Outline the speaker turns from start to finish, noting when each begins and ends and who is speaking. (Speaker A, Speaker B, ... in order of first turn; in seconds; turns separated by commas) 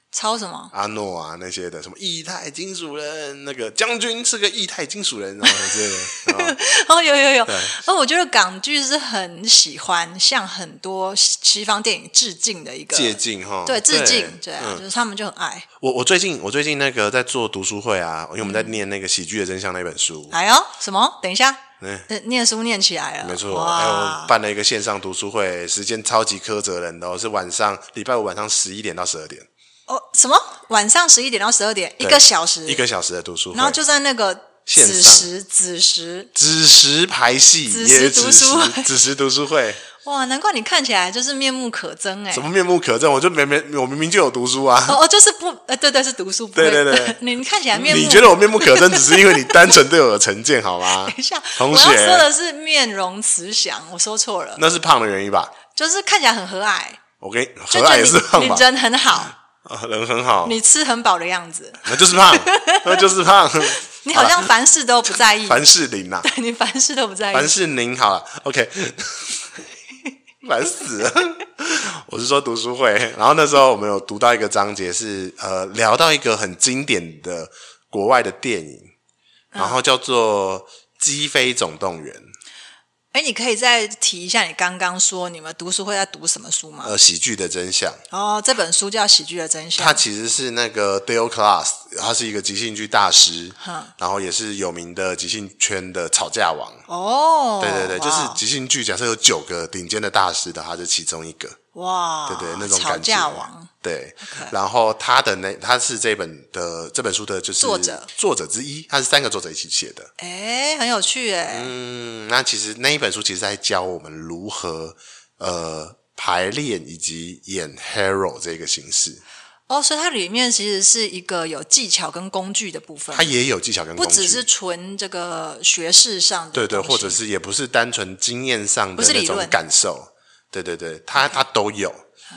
Speaker A: 0.1-0.7, Speaker B: 0.7-6.6, Speaker A: 5.5-15.7, Speaker B: 7.5-7.8, Speaker B: 12.9-14.8, Speaker B: 15.8-20.4, Speaker A: 18.4-18.8, Speaker A: 20.3-24.3, Speaker B: 21.8-22.1, Speaker B: 23.2-29.5, Speaker A: 29.9-32.8, Speaker B: 32.0-33.8, Speaker A: 33.5-36.3, Speaker B: 34.7-35.3, Speaker B: 36.3-39.8, Speaker A: 37.7-38.9, Speaker A: 40.0-42.5, Speaker B: 42.3-45.0, Speaker A: 44.9-49.8, Speaker B: 46.5-47.2, Speaker B: 47.7-52.3, Speaker A: 50.9-54.6, Speaker B: 54.6-55.6, Speaker A: 55.7-57.0, Speaker B: 57.2-58.7, Speaker A: 57.7-59.4, Speaker B: 59.6-60.6, Speaker A: 60.4-63.1, Speaker B: 61.8-64.5, Speaker A: 63.7-65.6, Speaker B: 65.1-66.3, Speaker A: 66.2-67.6, Speaker B: 67.3-69.5, Speaker B: 70.4-78.9, Speaker A: 79.5-79.8, Speaker B: 79.6-82.3, Speaker A: 83.1-87.0, Speaker B: 86.8-88.0, Speaker A: 88.1-90.0, Speaker B: 89.8-96.9, Speaker A: 93.6-93.9, Speaker A: 96.9-98.4, Speaker B: 97.6-101.6, Speaker A: 101.8-103.7, Speaker B: 102.3-110.1, Speaker A: 104.2-104.5, Speaker A: 107.6-108.1, Speaker A: 110.2-111.7, Speaker B: 111.5-119.2, Speaker A: 119.7-123.3, Speaker B: 123.1-124.4, Speaker A: 124.0-127.2, Speaker B: 126.5-132.0, Speaker A: 129.0-129.6, Speaker A: 131.2-131.4